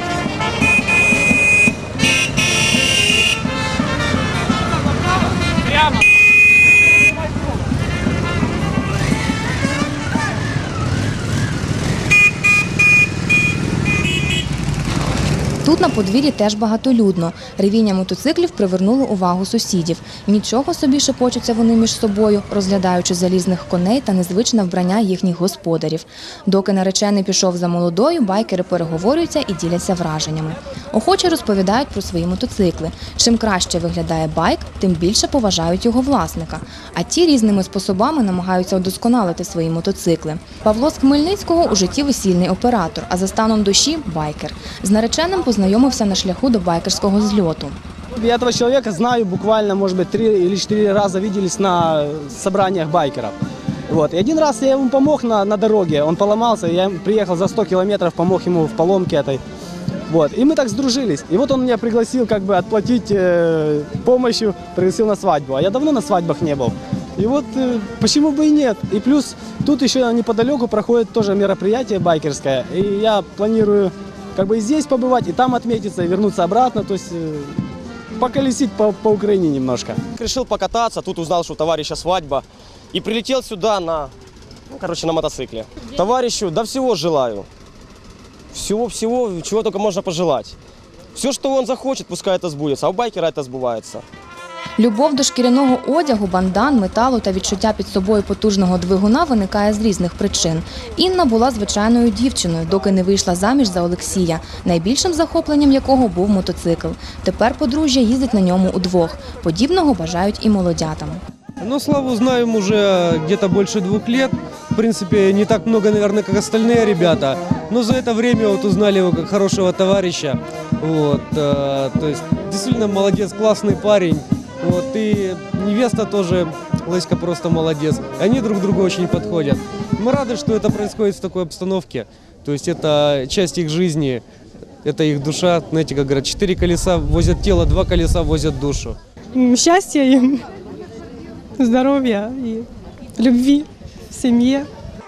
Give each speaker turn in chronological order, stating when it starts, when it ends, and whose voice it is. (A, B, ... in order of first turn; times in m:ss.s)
0:15.6-0:47.8 A
0:48.2-0:53.4 B
0:53.9-0:59.4 B
1:00.1-1:17.6 B
1:18.1-1:20.0 B
1:20.2-1:24.1 C
1:24.7-1:27.5 C
1:28.5-1:30.6 C
1:31.1-1:34.0 C
1:34.8-1:51.2 A
1:51.6-2:14.2 D
2:14.8-2:19.0 D
2:19.3-2:20.4 E
2:21.6-2:24.7 E